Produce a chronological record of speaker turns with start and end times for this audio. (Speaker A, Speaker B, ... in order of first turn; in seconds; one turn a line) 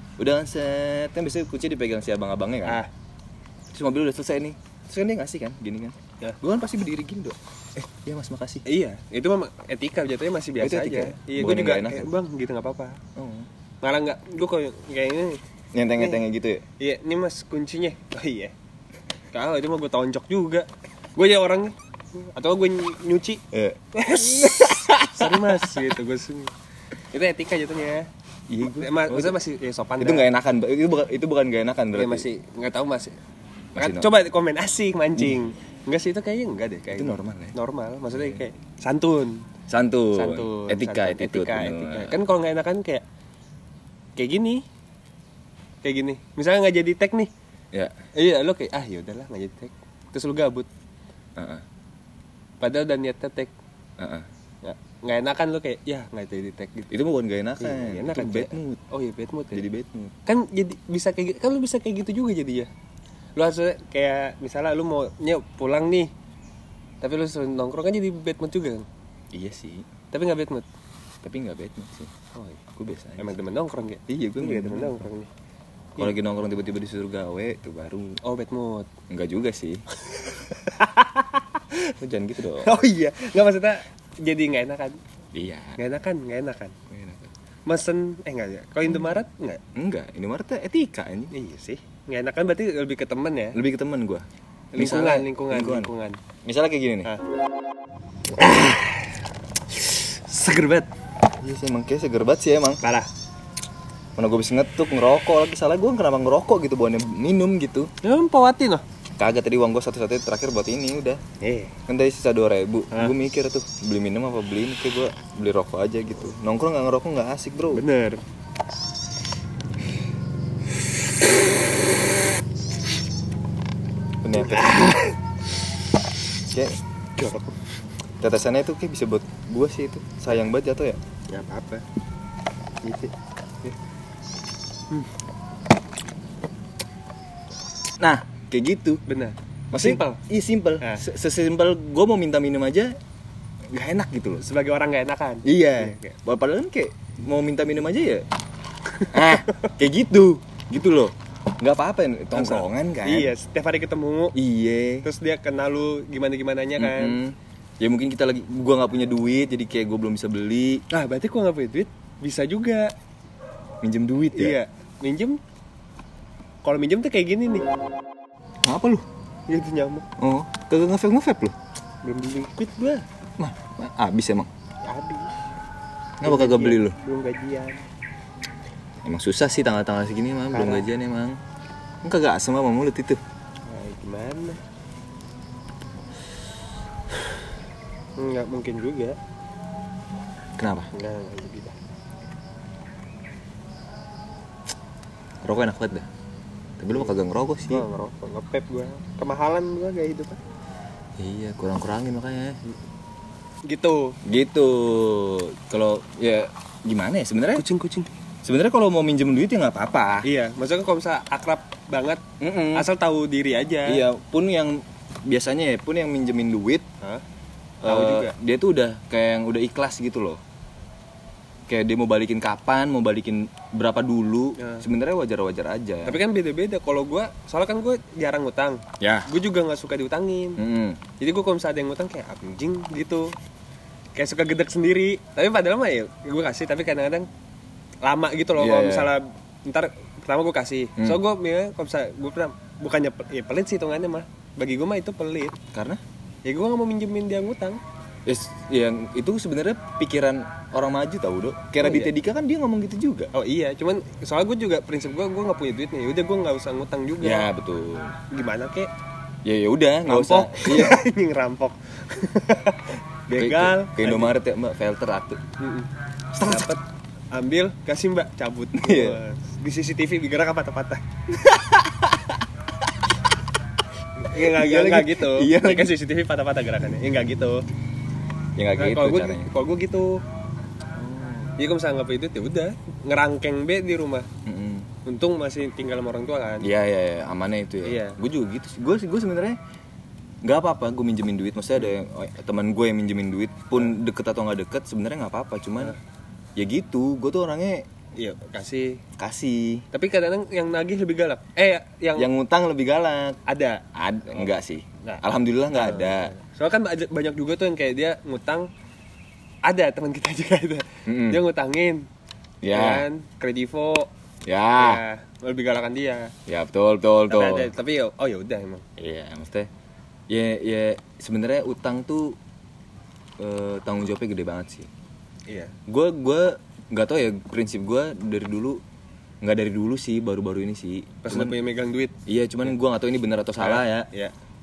Speaker A: 0.2-2.8
Speaker A: 3.7-8.6
Speaker B: 8.7-13.0
Speaker A: 10.6-12.1
Speaker A: 13.2-13.5
Speaker B: 13.8-15.4
Speaker A: 15.7-16.6
Speaker B: 16.8-18.5
Speaker B: 19.3-23.4
Speaker A: 23.5-25.8
Speaker B: 23.9-26.5
Speaker B: 27.1-28.1
Speaker A: 28.5-29.4
Speaker B: 28.6-30.3
Speaker A: 30.0-32.3
Speaker B: 31.9-33.2
Speaker A: 33.8-34.1
Speaker B: 33.8-39.5
Speaker A: 36.9-37.5
Speaker A: 38.1-38.4
Speaker A: 39.7-42.2
Speaker B: 40.1-43.0
Speaker B: 44.2-44.6
Speaker B: 45.8-47.3
Speaker B: 48.1-50.7
Speaker A: 51.4-51.6
Speaker B: 52.6-53.5
Speaker A: 54.0-54.3
Speaker B: 54.6-56.9
Speaker A: 56.9-58.8
Speaker B: 57.6-59.7
Speaker A: 59.5-60.1
Speaker B: 60.3-62.7
Speaker B: 63.4-66.1
Speaker B: 67.0-68.9
Speaker A: 69.3-69.9
Speaker B: 70.1-70.7
Speaker A: 71.2-73.4
Speaker B: 73.2-75.3
Speaker A: 74.1-75.1
Speaker A: 76.0-78.2
Speaker B: 78.2-78.9
Speaker A: 79.1-79.8
Speaker B: 80.0-81.6
Speaker A: 81.8-82.8
Speaker B: 82.6-85.0
Speaker A: 85.3-85.8
Speaker B: 85.8-86.7
Speaker A: 86.9-87.3
Speaker B: 87.7-89.6
Speaker A: 88.8-89.2
Speaker A: 89.8-91.3
Speaker B: 91.3-93.6
Speaker A: 93.5-94.2
Speaker A: 94.8-95.9
Speaker B: 94.8-96.2
Speaker A: 96.5-97.1
Speaker B: 98.3-100.9
Speaker A: 101.4-102.8
Speaker B: 102.8-103.1
Speaker A: 104.2-107.9
Speaker B: 108.0-108.8
Speaker A: 109.2-111.2
Speaker B: 111.4-111.8
Speaker A: 111.9-117.8
Speaker B: 117.7-118.2
Speaker A: 124.2-125.0
Speaker B: 124.4-125.2
Speaker A: 126.5-126.8
Speaker B: 127.2-127.5
Speaker A: 128.2-131.0
Speaker B: 131.3-131.8
Speaker B: 132.8-133.8
Speaker A: 138.0-139.0
Speaker B: 139.1-140.2
Speaker A: 139.7-142.9
Speaker A: 143.7-144.4
Speaker B: 144.4-146.2
Speaker A: 145.4-148.2
Speaker B: 148.9-149.7
Speaker A: 149.1-153.3
Speaker B: 152.3-154.3
Speaker A: 154.3-155.1
Speaker B: 155.0-157.2
Speaker A: 156.8-160.8
Speaker B: 160.9-162.9
Speaker A: 163.8-164.6
Speaker B: 164.3-165.4
Speaker B: 166.6-167.7
Speaker A: 168.6-169.1
Speaker B: 169.5-170.1
Speaker A: 170.2-171.6
Speaker B: 172.0-173.1
Speaker A: 173.4-174.5
Speaker B: 174.8-175.3
Speaker A: 176.2-177.0
Speaker B: 176.2-177.8
Speaker A: 179.1-181.4
Speaker B: 180.5-180.9
Speaker A: 182.0-183.2
Speaker B: 183.7-184.6
Speaker B: 188.2-189.2
Speaker A: 190.6-190.9
Speaker B: 190.9-191.8
Speaker A: 195.4-196.1
Speaker A: 196.8-197.8
Speaker B: 197.7-200.4
Speaker A: 201.2-202.6
Speaker B: 203.7-204.2
Speaker A: 204.2-207.7
Speaker B: 207.6-208.1
Speaker A: 208.4-210.3
Speaker B: 210.2-212.2
Speaker A: 212.4-212.9
Speaker B: 212.7-214.0
Speaker A: 213.9-216.8
Speaker B: 217.8-218.3
Speaker A: 217.8-220.4
Speaker A: 221.7-226.2
Speaker B: 224.6-224.8
Speaker B: 226.1-230.6
Speaker A: 229.0-229.2
Speaker A: 230.6-231.0
Speaker B: 231.2-233.3
Speaker B: 234.2-237.3
Speaker B: 238.0-245.5
Speaker A: 238.6-239.1
Speaker A: 245.7-246.0
Speaker B: 246.5-247.8
Speaker A: 248.3-253.3
Speaker B: 251.8-252.1
Speaker B: 253.3-257.5
Speaker A: 257.2-258.2
Speaker B: 258.3-258.9
Speaker A: 259.4-261.1
Speaker B: 260.1-264.4
Speaker A: 263.3-265.4
Speaker B: 265.6-265.9
Speaker A: 266.3-266.8
Speaker B: 266.4-266.8
Speaker B: 267.3-271.0
Speaker A: 268.7-269.2
Speaker B: 274.2-277.6
Speaker A: 274.3-275.9
Speaker A: 278.6-279.5
Speaker B: 278.8-280.2
Speaker A: 280.9-281.5
Speaker B: 281.6-284.3
Speaker A: 284.5-284.9
Speaker B: 285.1-286.7
Speaker A: 286.6-289.6
Speaker B: 287.8-288.2
Speaker A: 290.4-296.0
Speaker A: 296.6-297.9
Speaker B: 298.2-299.0
Speaker A: 299.2-299.9
Speaker B: 299.9-302.3
Speaker A: 302.2-303.4
Speaker B: 303.5-303.8
Speaker A: 303.9-306.3
Speaker B: 305.7-308.7
Speaker B: 309.6-312.1
Speaker A: 311.1-311.4
Speaker A: 312.6-313.1
Speaker B: 312.7-314.1
Speaker A: 314.5-315.0
Speaker B: 314.8-316.3
Speaker A: 316.5-317.7
Speaker B: 317.3-318.8
Speaker A: 319.0-319.7
Speaker A: 320.3-322.4
Speaker A: 323.4-324.9
Speaker B: 325.5-325.7
Speaker A: 325.9-328.8
Speaker A: 329.4-331.6
Speaker B: 331.2-332.1
Speaker A: 332.3-334.1
Speaker B: 333.6-334.3